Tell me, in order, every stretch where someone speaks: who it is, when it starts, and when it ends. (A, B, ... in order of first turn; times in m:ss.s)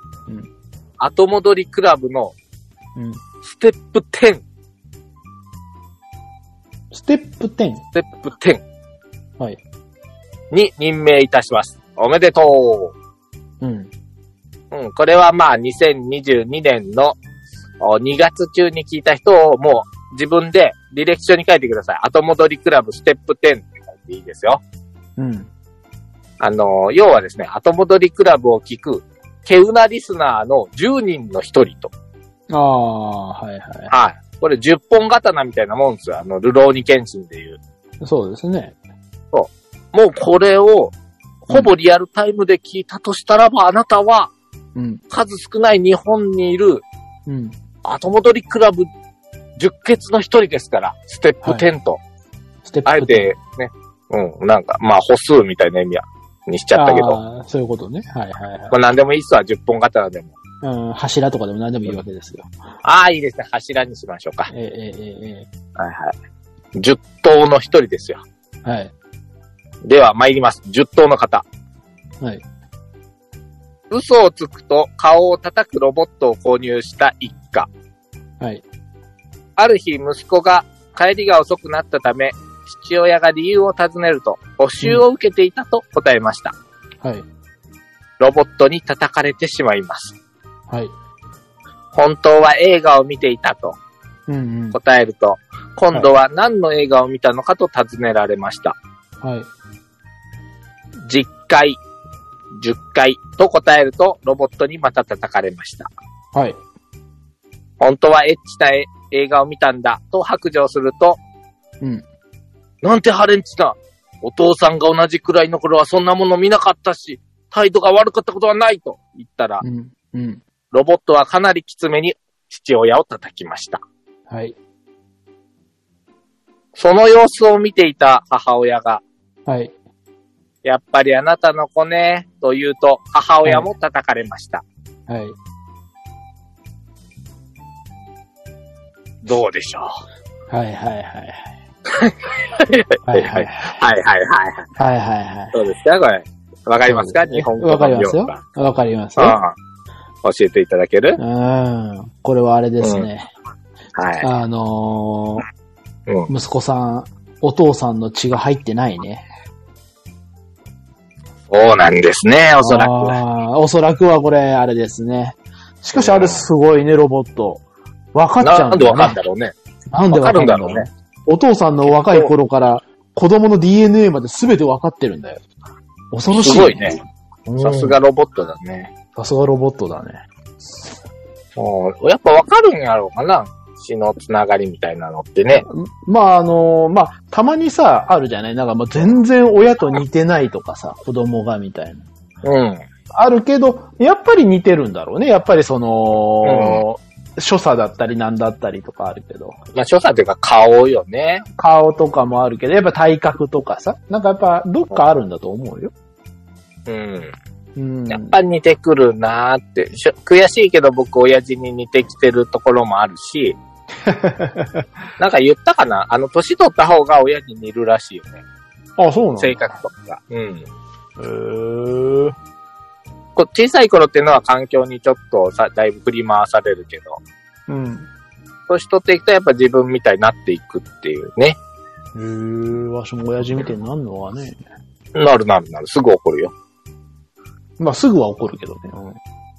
0:01.0-0:02.4 A
0:03.4-0:04.4 A
0:06.9-0:07.8 B
0:07.9-0:08.6 A
0:10.5-0:12.9 A
0:13.6-0:13.9 B
0:14.7-0:17.2 A
0:17.8-0:24.6 A
0:25.2-0:25.5 B
0:26.4-0:31.9 A
0:32.5-0:33.9 B
0:33.9-0:37.6 A
0:38.0-0:38.7 B
0:39.3-0:40.9 A
0:41.5-0:44.3 A
0:44.7-0:45.0 B
0:45.1-0:46.8 A
0:47.3-0:47.6 B
0:47.8-0:48.9 A
0:49.6-0:52.0 A
0:51.4-0:51.7 B
0:52.6-0:53.3 B
0:52.8-0:57.2 A
0:56.7-0:58.7 B
0:58.7-1:00.4 A
1:00.6-1:02.5 B
1:02.8-1:04.5 A
1:04.5-1:05.5 B
1:05.8-1:06.1 A
1:06.8-1:08.2 A
1:08.6-1:08.9 B
1:09.8-1:11.4 A
1:13.9-1:17.7 A
1:19.6-1:26.5 A
1:28.2-1:30.2 A
1:31.9-1:33.8 A
1:34.3-1:34.8 B
1:34.7-1:38.8 A
1:39.2-1:39.5 B
1:41.0-1:41.8 A
1:42.6-1:45.9 A
1:47.8-1:51.2 A
1:52.8-1:59.6 A
1:59.6-2:00.4 B
2:00.7-2:03.8 A
2:04.3-2:04.5 B
2:06.8-2:09.0 A
2:09.5-2:09.7 B
2:10.6-2:14.6 A
2:15.1-2:15.4 B
2:19.2-2:19.9 A
2:20.5-2:21.5 B
2:21.9-2:24.6 A
2:23.1-2:23.7 B
2:24.8-2:25.5 B
2:25.5-2:28.4 A
2:26.9-2:29.4 B
2:29.2-2:29.5 A
2:30.2-2:31.2 A
2:31.2-2:33.3 B
2:32.8-2:33.1 A
2:34.0-2:34.3 A
2:34.2-2:35.4 B
2:36.3-2:39.2 B
2:41.5-2:43.2 A
2:42.6-2:47.6 B
2:45.9-2:46.4 A
2:48.1-2:49.2 B
2:48.4-2:49.5 A
2:49.9-2:55.4 B
2:50.1-2:50.9 A
2:52.0-2:52.3 A
2:56.1-2:58.0 B
2:56.3-2:57.0 A
2:57.6-2:58.9 A
2:59.2-3:00.2 B
3:01.6-3:05.6 A
3:05.6-3:12.0 B
3:12.4-3:12.8 A
3:13.1-3:19.6 B
3:16.4-3:16.8 A
3:19.7-3:21.4 A
3:21.6-3:25.9 B
3:26.9-3:27.3 A
3:27.8-3:28.4 B
3:28.1-3:33.6 A
3:34.0-3:34.8 B
3:35.2-3:38.4 A
3:39.0-3:39.6 B
3:39.4-3:40.7 A
3:41.2-3:42.3 B
3:43.4-3:47.2 A
3:47.7-3:48.1 B
3:48.7-3:51.6 A
3:52.1-3:54.6 B
3:55.1-3:56.5 A
3:57.8-3:59.2 B